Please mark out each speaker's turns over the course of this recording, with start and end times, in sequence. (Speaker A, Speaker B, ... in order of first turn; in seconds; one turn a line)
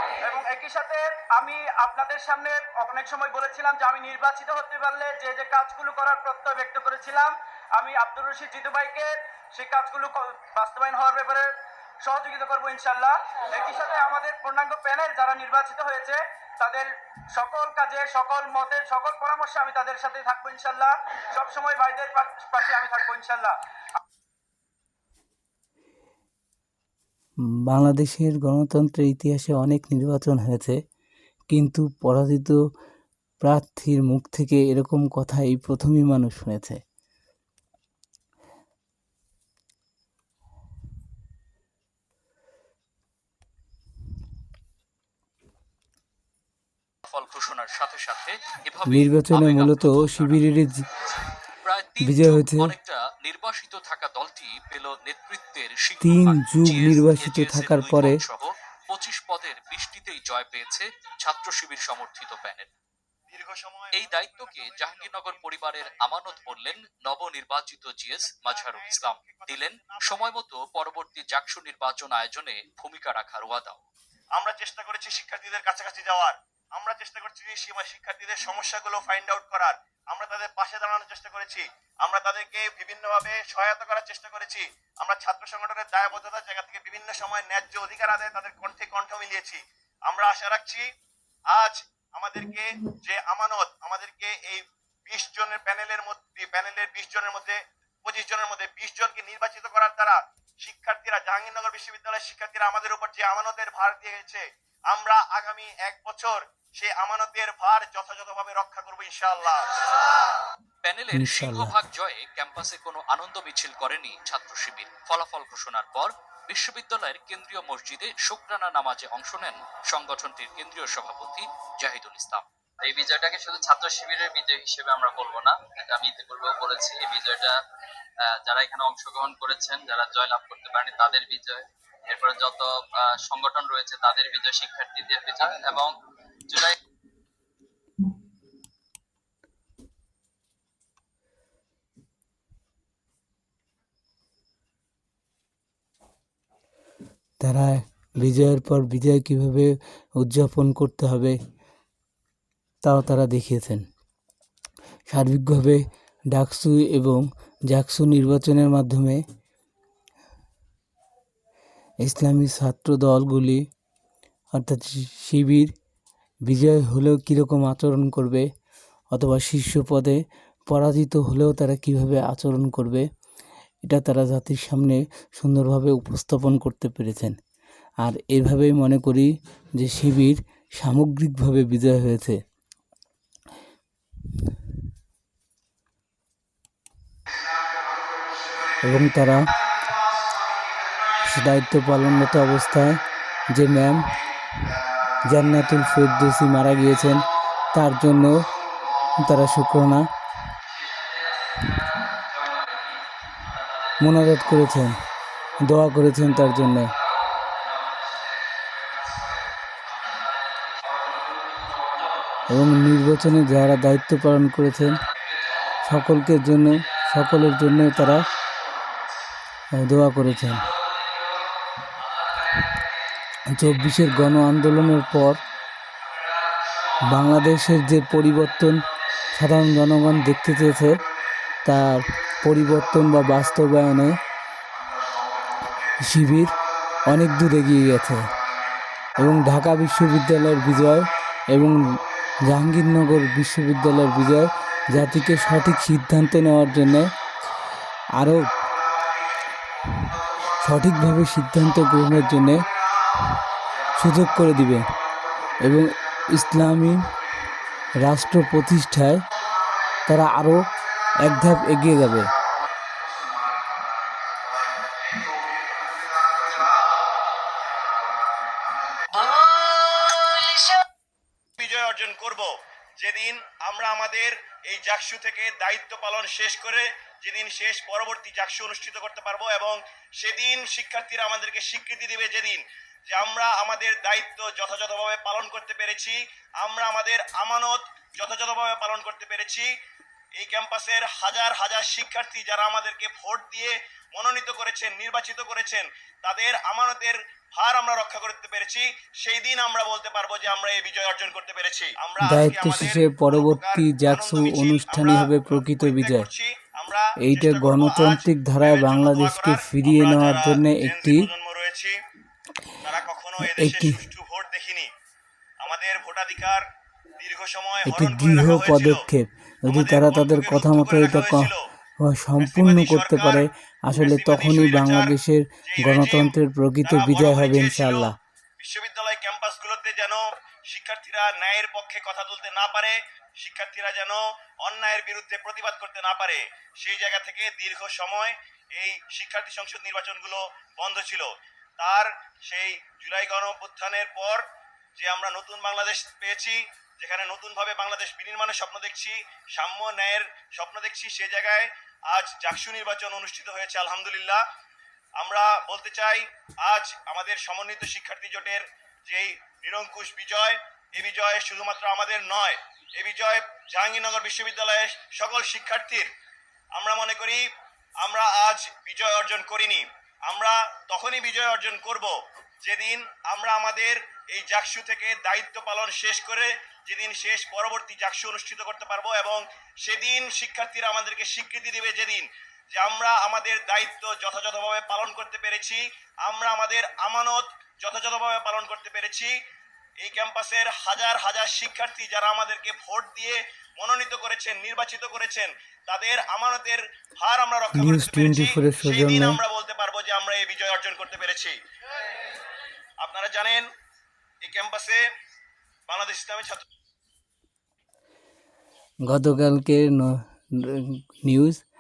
Speaker A: 0.2-11.5
Speaker A: 12.0-23.5
Speaker B: 27.7-30.8
Speaker B: 31.5-32.6
Speaker B: 33.4-36.8
Speaker C: 47.1-50.6
Speaker B: 48.9-50.9
Speaker C: 51.6-62.7
Speaker B: 52.0-52.8
Speaker B: 56.0-58.2
Speaker D: 63.3-66.8
Speaker C: 63.9-73.8
Speaker D: 68.2-70.4
Speaker D: 74.3-90.9
Speaker D: 91.5-109.7
Speaker C: 110.8-122.5
Speaker B: 111.1-111.8
Speaker E: 122.8-127.6
Speaker E: 128.2-136.0
Speaker E: 136.5-136.8
Speaker B: 147.4-151.4
Speaker B: 152.8-153.8
Speaker B: 155.1-159.2
Speaker B: 162.0-163.6
Speaker B: 164.6-165.7
Speaker B: 166.5-168.5
Speaker B: 169.1-170.2
Speaker B: 170.7-173.1
Speaker B: 173.8-177.4
Speaker B: 178.0-182.4
Speaker B: 188.8-189.5
Speaker B: 191.2-193.0
Speaker B: 193.5-194.1
Speaker B: 195.3-198.4
Speaker B: 199.2-200.1
Speaker E: 200.7-201.8
Speaker E: 202.4-202.7
Speaker E: 203.6-203.9
Speaker B: 204.0-205.0
Speaker B: 205.6-206.9
Speaker E: 206.8-209.4
Speaker E: 209.9-212.5
Speaker C: 210.9-212.5
Speaker B: 212.5-215.0
Speaker B: 215.9-218.3
Speaker B: 219.8-220.7
Speaker E: 220.6-221.0
Speaker E: 222.3-222.8
Speaker B: 223.5-225.4
Speaker E: 226.3-227.2
Speaker B: 227.0-231.0
Speaker B: 231.7-234.2
Speaker B: 236.0-236.5
Speaker B: 237.1-238.2
Speaker B: 239.2-241.8
Speaker B: 242.5-247.1
Speaker B: 248.2-248.5
Speaker B: 250.6-252.6
Speaker B: 254.0-254.8
Speaker B: 255.6-257.0
Speaker B: 258.0-259.2
Speaker B: 260.1-260.6
Speaker B: 261.2-262.3
Speaker D: 271.6-289.7
Speaker D: 290.4-312.0
Speaker B: 302.2-306.3
Speaker B: 307.2-311.3
Speaker D: 312.8-314.9
Speaker B: 313.4-314.0
Speaker D: 315.6-316.6
Speaker D: 317.2-319.0
Speaker B: 317.9-321.5
Speaker D: 319.7-321.6
Speaker B: 322.0-328.1
Speaker D: 322.4-325.1
Speaker D: 325.7-344.4
Speaker D: 345.0-354.4
Speaker D: 355.2-366.1
Speaker D: 366.8-367.4
Speaker D: 368.0-389.4
Speaker D: 390.0-401.6
Speaker B: 397.7-399.4
Speaker D: 403.0-403.7
Speaker D: 404.4-405.0
Speaker D: 405.9-406.6
Speaker B: 409.1-411.6